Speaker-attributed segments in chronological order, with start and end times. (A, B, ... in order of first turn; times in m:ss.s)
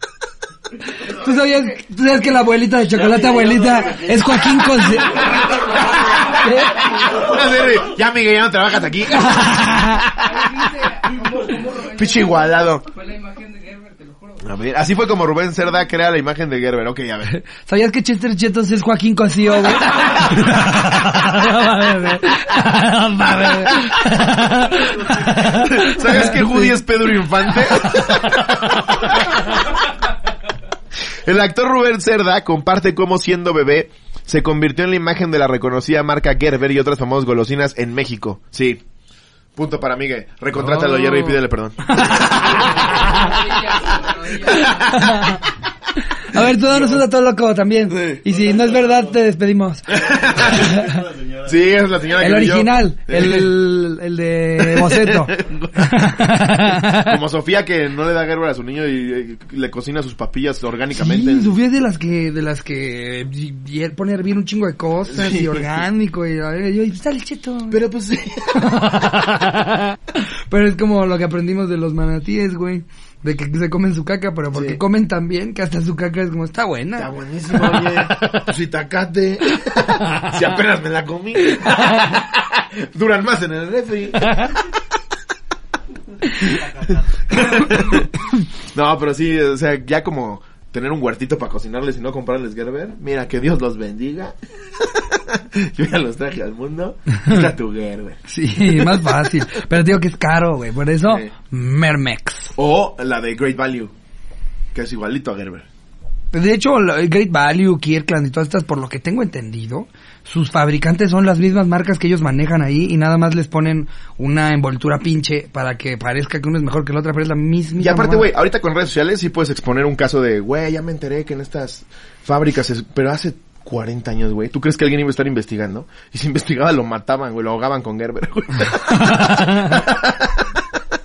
0:00.9-0:05.3 A
0:03.0-0:07.7 B
0:03.7-0:04.5 C
0:05.1-0:10.5 C
0:06.3-0:07.1 A
0:09.1-0:10.1 A
0:10.1-0:14.5 B
0:11.8-0:12.9 C
0:14.4-0:17.3 C
0:17.3-0:26.8 A
0:23.5-0:23.9 C
0:25.3-0:29.3 C
0:27.5-0:28.1 A
0:31.2-0:38.8 C
0:39.6-0:45.2 C
0:40.6-0:43.4 A
0:42.5-0:45.0 B
0:44.3-0:51.1 A
0:46.3-0:47.0 C
0:47.9-0:48.2 C
0:48.3-0:49.2 B
0:49.9-0:53.5 C
0:50.0-0:51.6 B
0:52.2-0:57.2 A
0:54.6-0:56.1 C
0:56.9-1:01.6 C
1:01.0-1:07.8 A
1:05.1-1:05.8 C
1:07.7-1:08.7 C
1:08.5-1:18.3 A
1:14.5-1:14.8 C
1:17.0-1:24.8 C
1:21.7-1:22.1 A
1:26.4-1:28.2 C
1:28.7-1:39.3 C
1:38.3-1:42.6 A
1:41.0-1:41.3 C
1:42.6-1:43.9 C
1:44.7-1:45.6 C
1:46.3-1:58.3 A
1:57.8-2:10.6 C
2:08.7-2:09.8 A